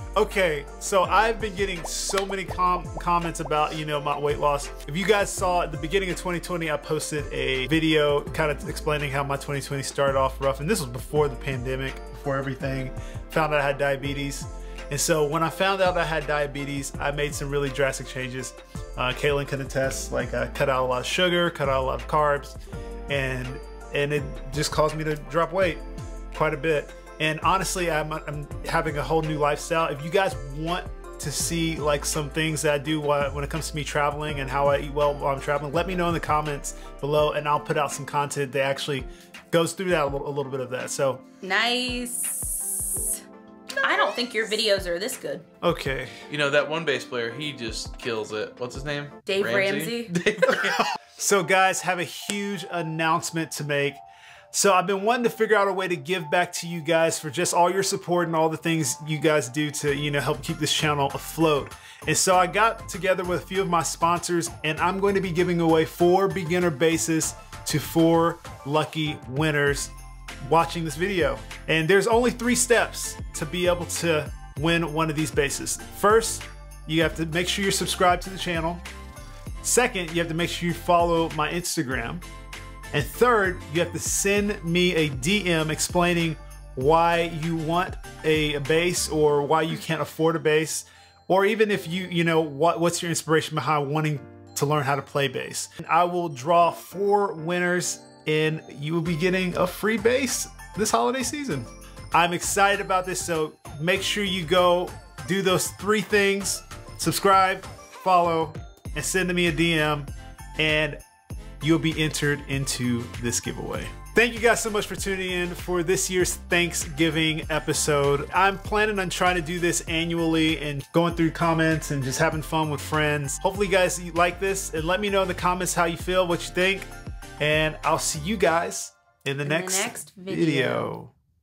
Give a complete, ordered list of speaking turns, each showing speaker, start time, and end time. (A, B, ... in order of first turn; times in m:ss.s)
0:00.1-0:25.8 A
0:26.3-0:41.2 A
0:41.4-0:43.2 B
0:43.8-0:45.4 B
0:45.6-0:46.1 A
0:46.3-0:50.8 C
0:49.2-0:50.1 B
0:51.2-1:18.8 A
1:19.6-1:22.2 A
1:22.9-1:51.0 A
1:51.6-2:11.1 A
2:09.4-2:10.9 B